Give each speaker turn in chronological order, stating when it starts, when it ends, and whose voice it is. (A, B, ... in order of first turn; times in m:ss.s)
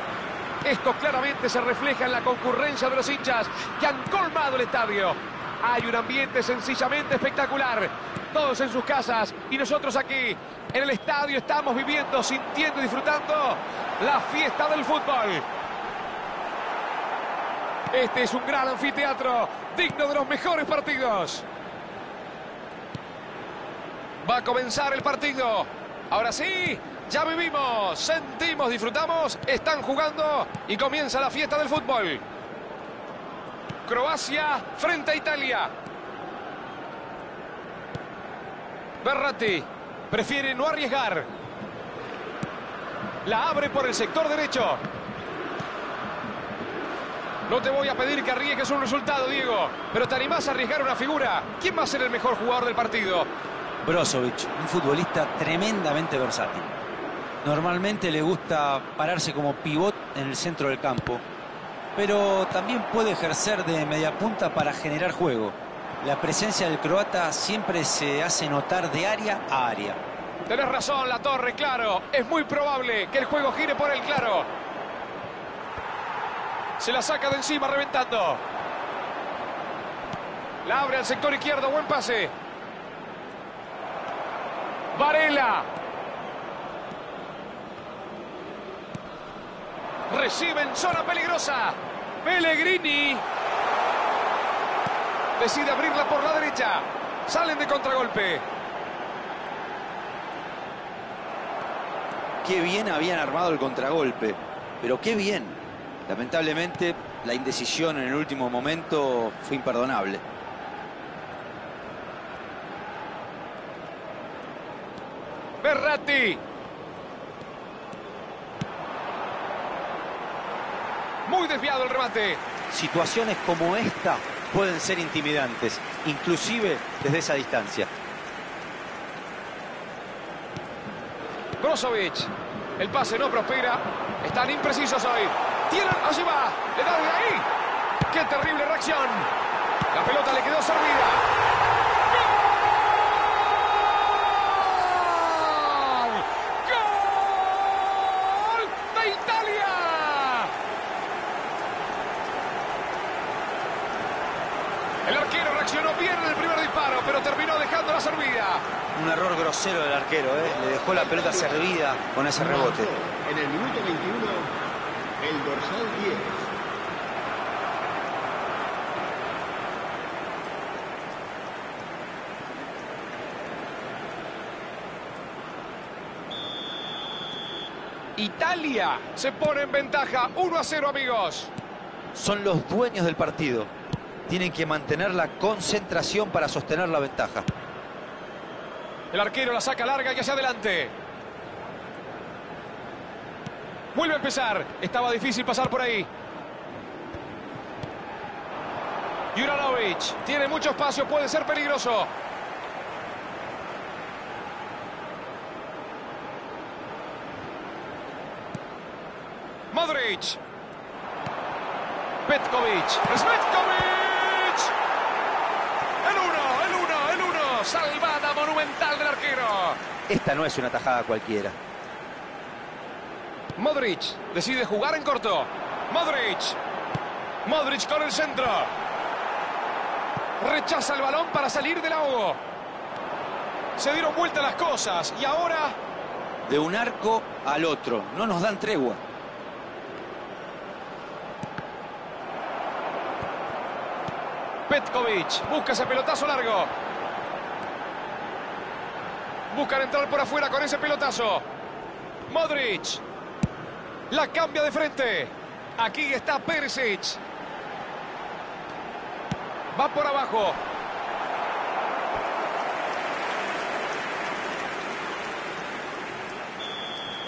0:00.6-0:15.4 A
0:17.9-0:21.4 A
0:24.2-0:32.2 A
0:33.8-0:35.7 A
0:39.0-0:41.3 A
0:43.2-0:44.8 A
0:47.5-0:53.3 A
0:53.8-0:56.7 B
0:57.4-1:01.2 B
1:01.9-1:10.0 B
1:10.5-1:14.5 A
1:16.8-1:18.4 A
1:20.6-1:22.3 A
1:24.9-1:25.7 A
1:30.1-1:33.2 A
1:35.4-1:38.4 A
1:42.4-1:50.2 B
1:55.6-1:56.4 A
2:01.2-2:02.4 A
2:02.7-2:07.9 B
2:11.6-2:17.5 A
2:18.1-2:19.3 A
2:19.9-2:21.3 A
2:22.1-2:30.5 A
2:35.0-2:38.6 A
2:38.9-2:42.9 B
2:40.4-2:41.7 C
2:42.3-2:44.6 C
2:45.2-2:46.5 C
2:58.2-3:01.5 A
3:02.1-3:03.7 B
3:04.3-3:07.4 B
3:09.1-3:10.9 A
3:13.9-3:16.1 A
3:19.3-3:22.1 A
3:29.7-3:30.4 A
3:32.2-3:34.7 A
3:36.0-3:39.8 A
3:40.1-3:41.6 B
3:43.6-3:46.6 A
3:47.4-3:48.7 A
3:50.4-3:52.4 A
3:53.8-3:55.8 A
3:56.4-3:59.0 B
4:04.7-4:06.7 A
4:09.5-4:11.4 A
4:12.3-4:13.0 A
4:14.1-4:17.2 A
4:19.7-4:20.6 A